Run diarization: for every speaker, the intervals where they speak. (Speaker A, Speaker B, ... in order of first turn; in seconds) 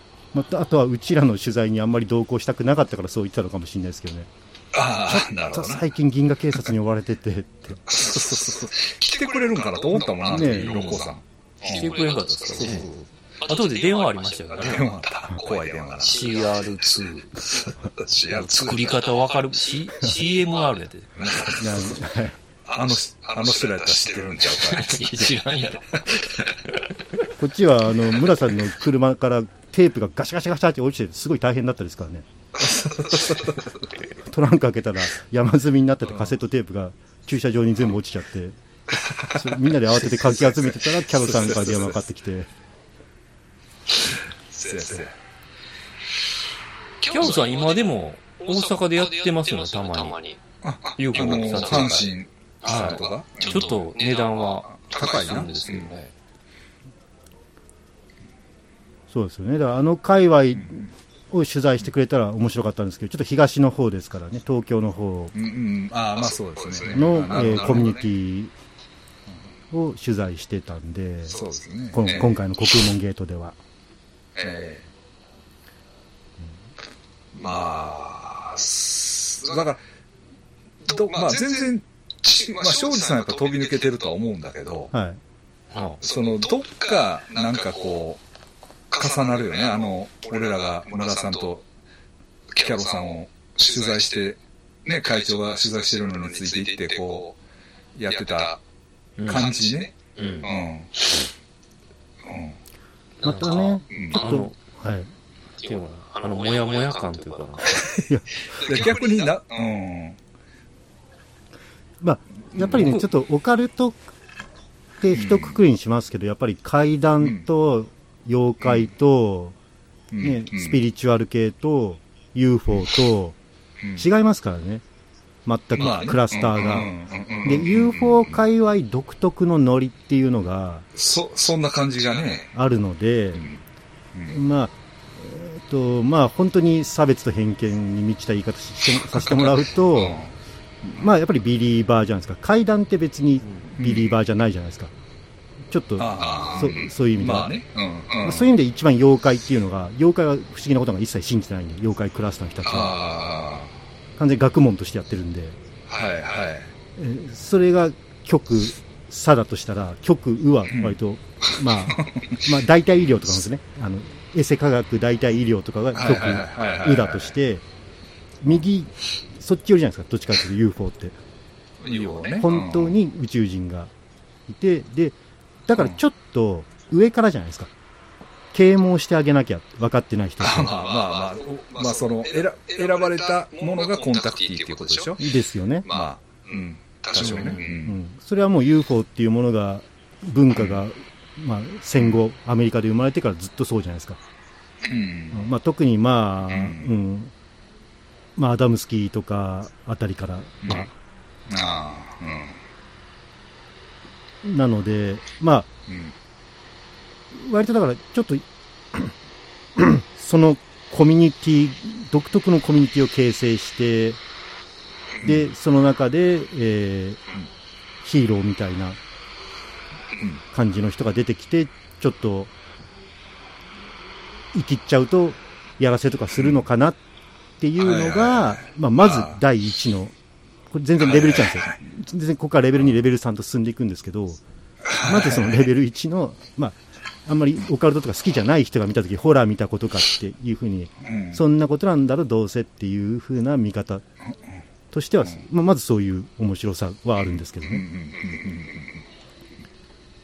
Speaker A: 0.3-4.3, 5.0-7.8, 10.2-11.1, 12.6-12.9, 21.5-22.4, 27.4-32.2, 34.2-38.5, 39.2-42.5, 59.1-65.3, 66.9-68.5, 69.7-71.4, 71.9-73.6, 84.9-85.2, 103.2-105.1, 108.1-108.7, 112.0-114.0, 115.0-119.5, 120.2-123.4, 124.0-124.8, 125.4-130.9, 132.5-133.5, 134.3-140.2, 140.9-144.9, 145.7-147.6, 148.2-153.0, 154.2-155.6, 157.0-167.6, 168.4-171.2, 172.4-173.9, 174.5-177.7, 178.5-180.8, 185.2-185.9, 187.2-194.2, 195.3-197.3, 198.3-200.9, 204.4-205.7, 207.3-209.1, 209.8-214.2, 215.2-217.2, 218.0-219.0, 220.5-222.5, 224.5-227.0, 227.6-230.1, 230.7-234.4, 234.9-244.0, 244.9-247.9
Speaker B: 4.7-5.9, 7.9-12.0, 12.5-13.0, 14.6-16.2, 17.9-18.9, 21.1-21.9, 22.6-25.0, 32.6-33.7, 36.1-36.3, 39.1-39.4, 40.2-41.9, 44.5-45.1, 50.6-53.8, 54.9-55.9, 65.3-68.1, 71.3-72.4, 74.3-74.9, 77.3-79.8, 80.8-84.9, 86.0-88.2, 88.9-91.6, 92.5-97.3, 97.9-98.6, 99.2-101.0, 102.2-102.6, 103.9-104.2, 108.6-110.2, 115.1-115.6, 117.2-117.5, 118.6-118.9, 120.1-120.8, 125.7-128.4, 130.9-132.5, 139.1-141.1, 143.7-144.1, 146.0-148.5, 152.6-153.7, 155.9-156.7, 160.7-161.0, 161.9-162.3, 165.9-167.3, 171.8-173.0, 180.4-185.2, 185.8-188.0, 190.5-190.8, 194.8-195.4, 196.4-196.9, 200.6-200.9, 201.5-202.6, 205.9-206.1, 215.1-215.4, 220.1-220.4, 227.8-229.4, 231.0-231.8, 234.8-235.7, 241.0-241.4, 247.2-249.0
Speaker C: 10.4-11.0, 11.6-12.9, 13.4-14.9, 16.0-17.4, 18.3-21.1, 24.6-26.5, 47.0-50.4, 51.0-52.1, 52.6-56.1, 85.7-86.0, 99.2-99.5, 100.2-100.5, 103.2-104.5, 105.6-107.9, 187.2-187.7